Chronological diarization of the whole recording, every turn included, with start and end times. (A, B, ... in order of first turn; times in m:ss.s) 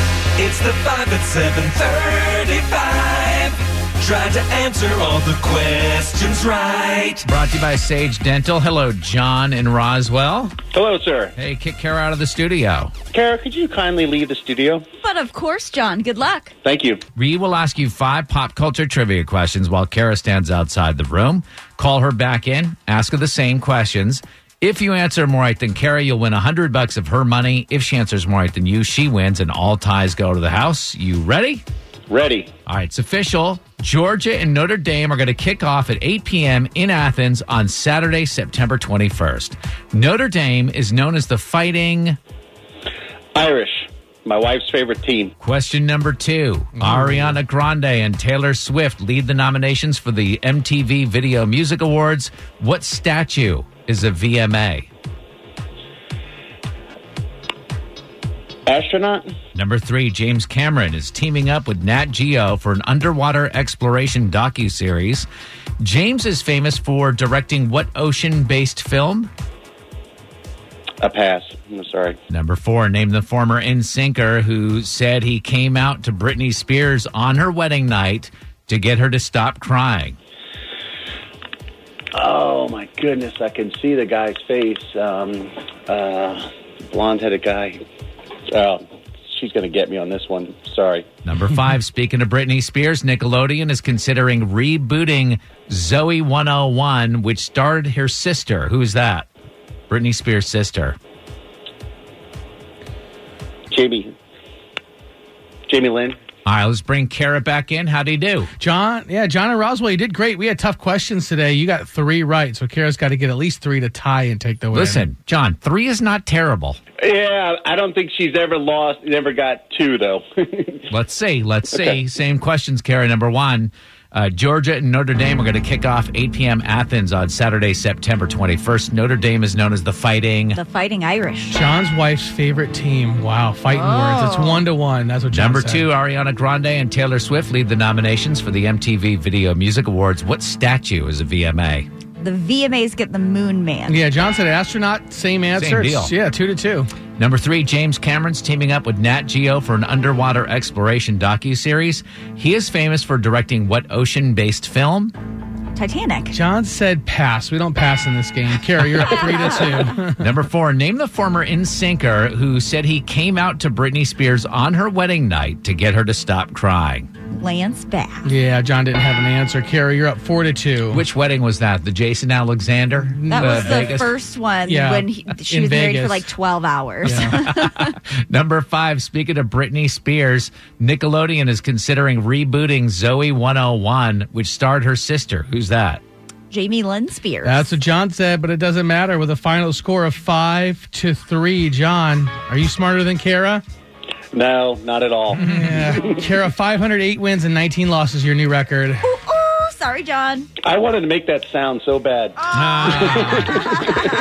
0:00.4-0:07.2 A
0:07.2-0:10.6 B
0:10.7-0:11.3 C
0:11.4-0:12.9 B
0:13.1-0:14.8 C
0:15.0-0:16.5 D
0:16.6-0:17.0 C
0:17.2-0:31.6 B
0:32.1-0:32.5 C
0:32.6-0:42.2 B
0:43.3-0:45.3 C
0:45.4-0:54.9 B
0:46.8-0:47.2 E
0:58.6-0:59.3 C
0:59.5-1:05.3 B
1:05.8-1:09.3 B
1:11.0-1:12.2 C
1:12.3-1:20.2 B
1:22.1-1:27.8 C
1:28.5-1:31.1 C
1:31.2-1:39.3 B
1:39.9-1:41.0 B
1:43.7-1:44.1 C
1:45.7-1:46.2 C
1:46.4-1:48.5 B
1:48.6-1:55.0 E
1:54.7-1:56.8 B
1:57.0-2:00.8 C
2:00.9-2:10.6 B
2:10.5-2:11.6 D
2:11.5-2:15.9 E
2:13.7-2:14.6 D
2:15.3-2:21.9 B
2:22.2-2:24.0 D
2:23.9-2:26.9 E
2:25.6-2:26.1 B
2:27.2-2:35.1 B
2:35.7-2:36.4 D
2:36.3-2:40.3 E
2:39.2-2:39.5 D
2:40.2-2:47.1 B
2:47.3-2:48.3 D
2:48.2-2:51.0 E
2:50.9-2:54.1 B
2:53.0-2:54.0 E
2:53.3-2:57.9 D
2:54.6-2:56.3 E
2:57.0-2:57.4 E
2:57.0-3:06.0 B
3:06.5-3:07.7 D
3:07.4-3:13.6 E
3:14.3-3:16.2 C
3:15.4-3:19.1 E
3:19.0-3:20.5 D
3:20.6-3:23.9 C
3:22.5-3:23.5 B